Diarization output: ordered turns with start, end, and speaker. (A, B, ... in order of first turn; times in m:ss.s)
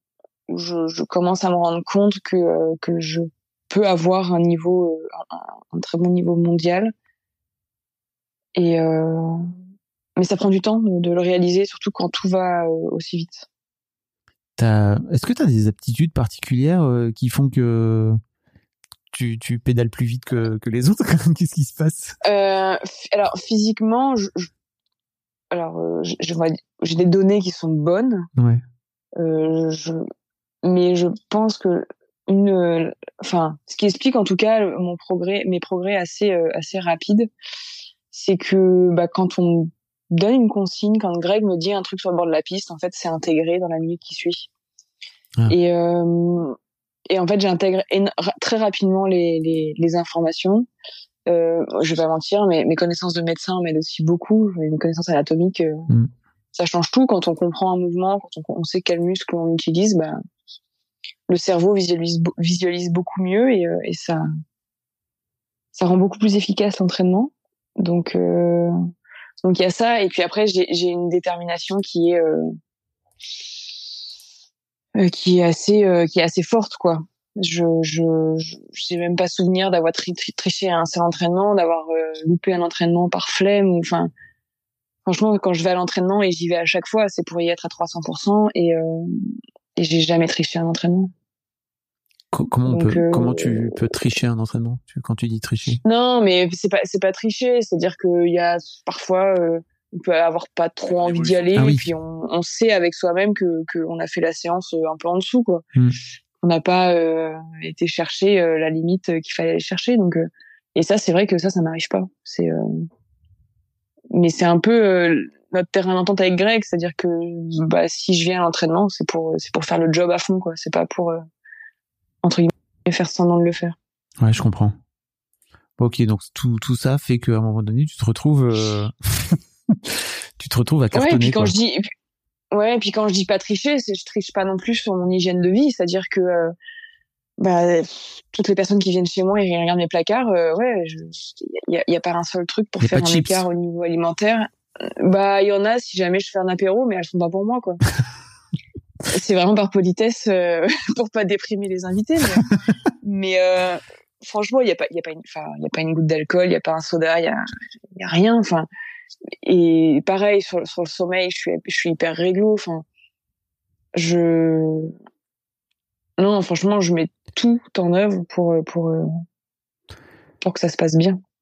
0:00.5-0:06.9 A
0:08.6-0:09.4 A
0:10.2-0:13.4 A
0:14.6-0:18.2 B
0:19.1-0:22.2 B
0:22.2-0:24.5 A
0:25.5-0:28.2 A
0:28.4-0:28.6 B
0:29.2-0:30.0 A
0:30.6-0:37.3 A
0:38.1-0:44.5 A
0:45.5-0:46.6 A
0:47.1-0:50.7 A
0:51.3-0:55.9 A
0:56.5-1:00.2 A
1:01.3-1:04.2 A
1:05.7-1:08.7 A
1:09.4-1:12.6 A
1:15.0-1:24.1 A
1:25.0-1:31.1 A
1:32.3-1:35.8 B
1:32.7-1:33.7 A
1:35.8-1:45.6 A
1:41.5-1:41.9 B
1:46.4-1:52.9 A
1:54.1-2:01.2 A
2:02.2-2:03.8 A
2:04.2-2:04.8 B
2:05.8-2:11.5 B
2:10.9-2:11.9 A
2:12.5-2:16.5 A
2:17.4-2:27.8 A
2:22.8-2:23.4 B
2:29.1-2:32.5 A
2:33.0-2:37.4 A
2:37.9-2:38.7 A
2:39.4-2:42.8 A
2:43.9-2:44.9 A
2:46.2-2:49.1 A
2:50.4-2:51.2 A